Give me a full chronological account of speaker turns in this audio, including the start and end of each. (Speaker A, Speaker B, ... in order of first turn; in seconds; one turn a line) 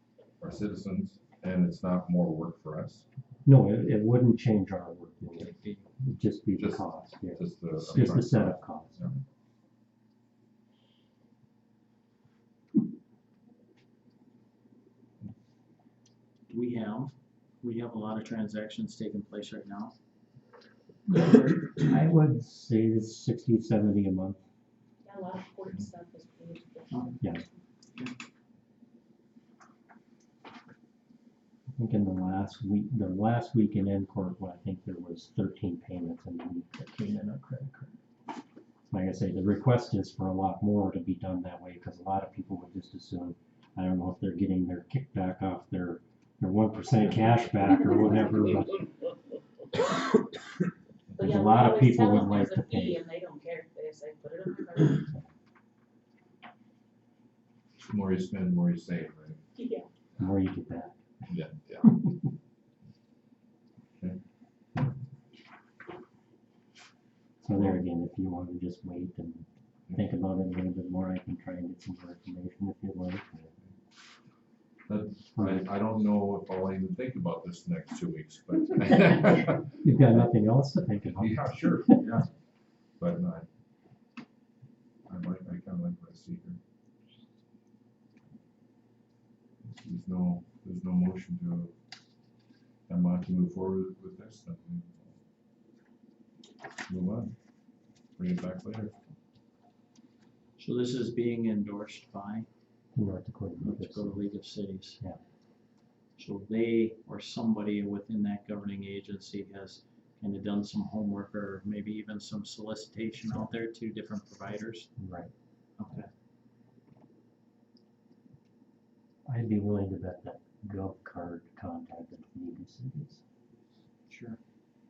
Speaker A: 0.4-3.0
Speaker B: 3.4-9.0
Speaker A: 5.5-5.8
Speaker A: 6.6-9.2
Speaker C: 16.5-19.9
Speaker B: 21.1-24.4
Speaker D: 25.0-27.4
Speaker B: 31.8-37.9
Speaker B: 38.9-48.9
Speaker A: 47.0-47.4
Speaker D: 51.1-55.0
Speaker B: 51.2-53.0
Speaker B: 55.0-55.3
Speaker A: 57.8-59.4
Speaker D: 59.5-59.9
Speaker B: 60.2-61.3
Speaker A: 61.3-62.0
Speaker B: 67.4-73.5
Speaker A: 74.9-80.3
Speaker B: 75.3-75.7
Speaker B: 79.8-82.1
Speaker A: 81.2-82.3
Speaker A: 83.0-83.5
Speaker A: 85.1-86.6
Speaker A: 89.6-91.7
Speaker A: 92.9-95.2
Speaker A: 96.9-97.3
Speaker A: 98.2-99.0
Speaker C: 100.6-102.5
Speaker B: 102.9-104.2
Speaker C: 103.6-105.0
Speaker C: 106.2-114.9
Speaker B: 115.0-115.3
Speaker C: 115.8-116.1
Speaker B: 119.2-123.2
Speaker C: 124.1-124.4